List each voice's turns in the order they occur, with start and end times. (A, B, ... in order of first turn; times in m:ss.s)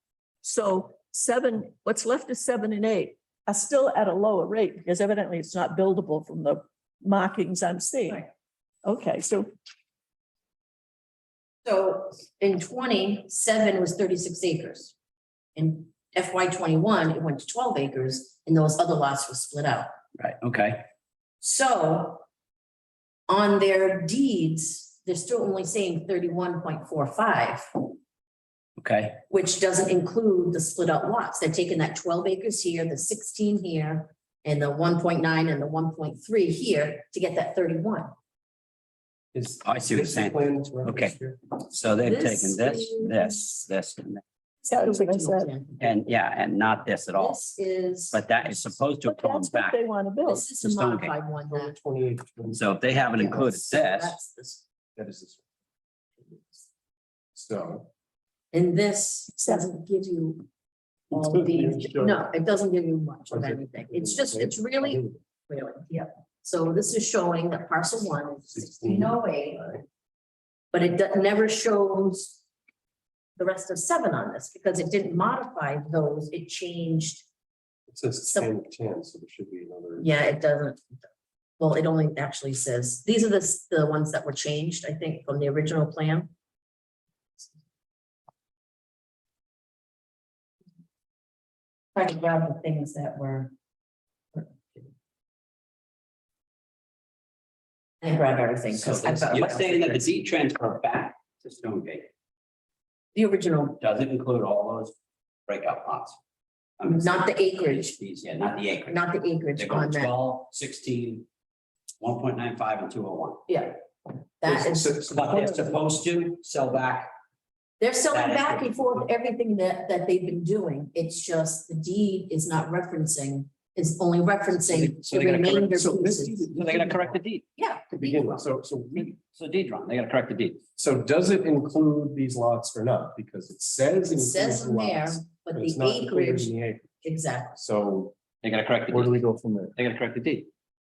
0:00.4-0:08.3 A
0:08.8-0:09.5 A
0:11.6-0:14.9 B
0:15.6-0:19.9 B
0:20.2-0:20.8 C
0:21.4-0:22.2 B
0:23.3-0:28.0 B
0:28.8-0:29.2 C
0:29.3-0:38.1 B
0:39.3-0:41.4 D
0:39.6-0:44.2 C
0:42.0-0:43.5 B
0:44.6-0:46.0 B
0:44.7-0:45.5 A
0:45.8-0:47.4 C
0:47.1-0:48.8 B
0:48.1-0:49.8 C
0:49.0-0:50.5 A
0:50.2-0:51.7 B
0:50.6-0:51.1 C
0:51.5-0:52.6 D
0:52.5-0:54.2 C
0:53.2-0:54.6 B
0:54.9-0:55.4 D
0:57.3-0:57.9 D
0:58.5-1:00.5 B
1:01.1-1:02.2 D
1:01.1-1:09.6 B
1:03.3-1:05.2 D
1:08.5-1:09.8 D
1:10.7-1:12.4 B
1:13.4-1:17.3 B
1:17.9-1:20.1 D
1:20.0-1:20.8 B
1:21.6-1:26.3 B
1:31.9-1:33.5 B
1:34.3-1:34.9 B
1:38.0-1:40.0 B
1:38.7-1:42.1 C
1:43.1-1:43.8 B
1:43.8-1:44.9 C
1:45.5-1:46.2 C
1:46.8-1:51.2 C
1:46.8-1:47.9 B
1:48.9-1:50.1 B
1:52.0-1:53.4 C
1:53.5-1:53.8 B
1:54.4-1:55.0 B
1:54.5-1:55.6 D
1:54.9-1:57.1 C
1:57.8-2:06.4 B
1:58.1-1:58.9 C
2:04.7-2:07.2 D
2:06.5-2:07.4 C
2:07.6-2:08.5 B
2:07.9-2:09.2 D
2:09.0-2:10.6 C
2:10.8-2:16.9 D
2:14.1-2:17.6 B
2:17.6-2:18.1 D
2:18.4-2:19.1 C
2:18.9-2:19.7 D
2:19.8-2:20.5 C